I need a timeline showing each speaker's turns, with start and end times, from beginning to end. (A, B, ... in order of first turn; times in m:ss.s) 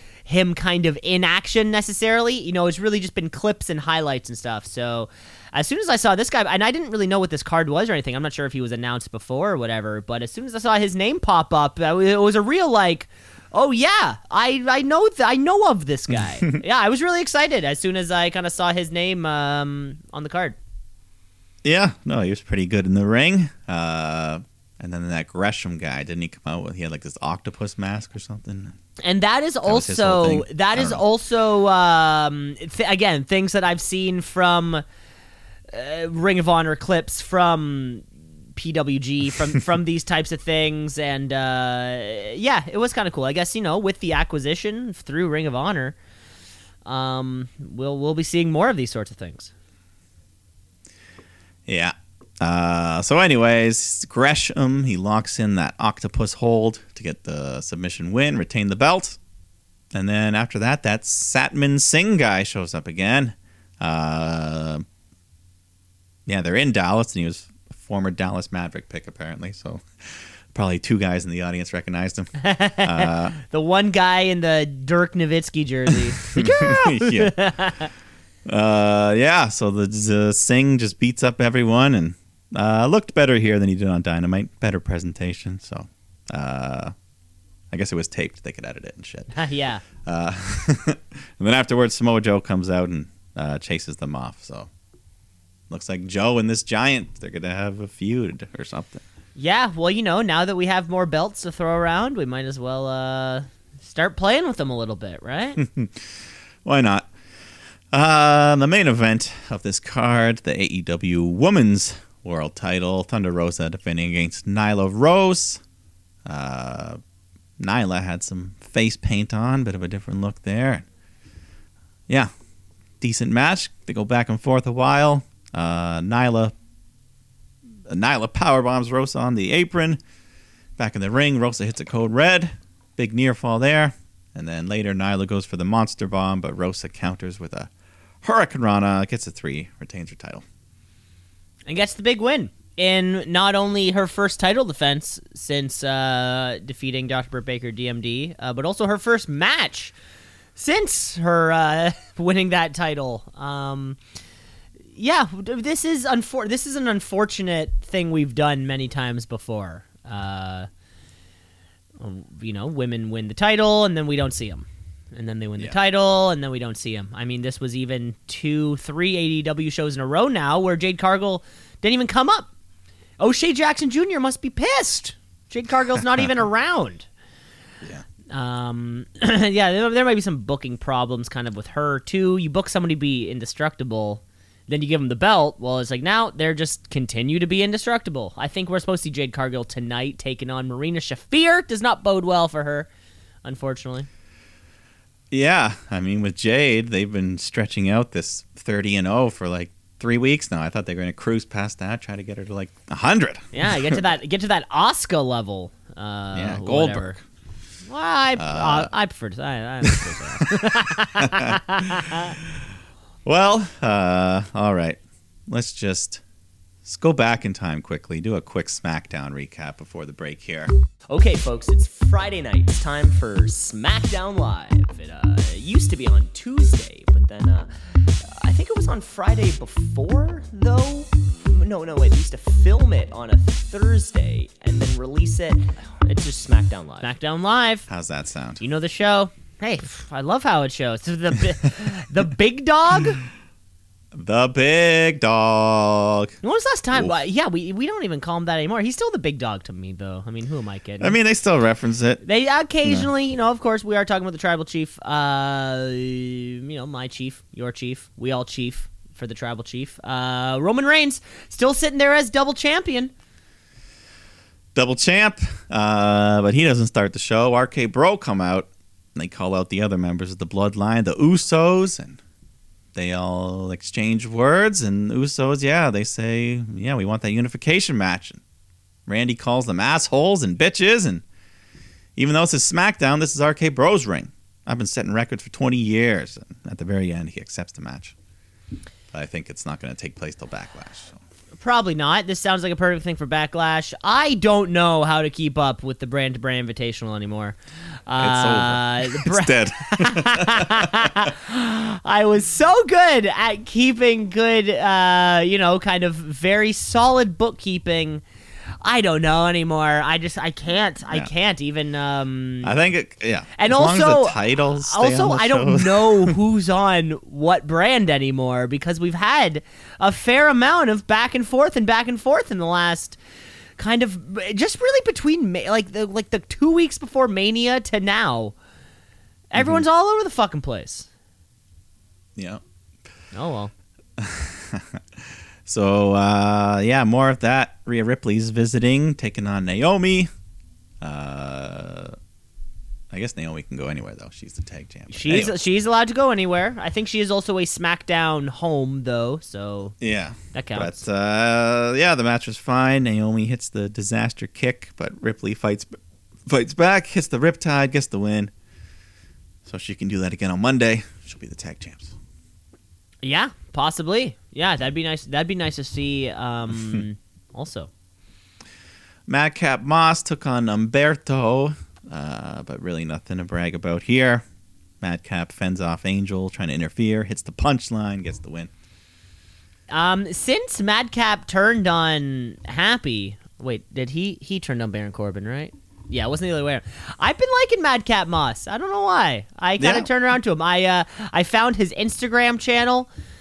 0:00.2-0:20.6 A
0:16.1-0:16.6 B
0:21.6-0:28.8 B
0:29.0-0:34.8 A
0:29.6-0:31.0 B
0:35.7-0:46.0 A
0:46.8-0:49.5 A
0:51.6-0:59.2 B
0:59.9-1:04.8 B
1:06.2-1:13.3 B
1:12.4-1:17.9 A
1:16.2-1:17.4 B
1:18.4-1:26.9 B
1:27.7-1:29.3 B
1:29.3-1:29.8 A
1:30.0-1:34.7 B
1:35.7-1:39.0 B
1:39.4-1:45.6 A
1:45.6-1:47.1 B
1:47.9-1:55.6 B
1:56.2-1:57.0 B
1:57.6-2:00.8 B
2:03.0-2:06.5 B
2:07.9-2:10.0 B
2:10.8-2:17.7 B
2:18.2-2:20.4 B
2:21.7-2:29.9 A
2:30.6-2:34.0 A
2:35.0-2:40.7 A
2:42.0-2:52.5 A
2:53.2-2:57.1 A
2:58.3-3:12.9 A
3:13.4-3:14.1 A
3:15.3-3:24.0 B
3:23.5-3:27.2 A
3:26.3-3:27.2 B
3:27.9-3:32.4 A
3:28.4-3:28.9 B
3:29.8-3:32.4 B
3:33.2-3:36.2 B
3:36.8-3:40.7 B
3:41.1-3:57.0 C
3:56.9-3:57.9 A
3:57.9-3:58.6 B
3:58.6-4:03.2 A
4:04.1-4:06.4 B
4:06.4-4:11.1 A
4:11.0-4:12.2 B
4:12.2-4:23.1 A
4:24.7-4:32.2 B
4:32.9-4:38.4 B
4:39.1-4:41.2 B
4:42.2-4:48.1 B
4:49.1-4:51.2 B
4:51.6-5:08.2 A
4:58.2-5:01.3 B
5:08.8-5:12.8 A
5:12.6-5:16.4 B
5:13.5-5:23.2 A
5:23.8-5:28.5 A
5:29.5-5:31.1 A
5:29.6-5:29.8 B
5:32.4-5:32.6 B
5:33.3-5:33.7 A
5:34.2-5:40.3 B
5:41.0-5:42.2 B
5:43.1-5:45.6 B
5:45.1-5:50.0 A
5:50.0-5:56.0 B
5:50.5-5:51.0 A
5:56.5-5:58.5 B
5:59.6-6:02.1 B
6:03.2-6:07.9 A
6:09.3-6:14.4 B
6:15.0-6:18.7 B
6:19.9-6:33.1 A
6:29.8-6:30.1 B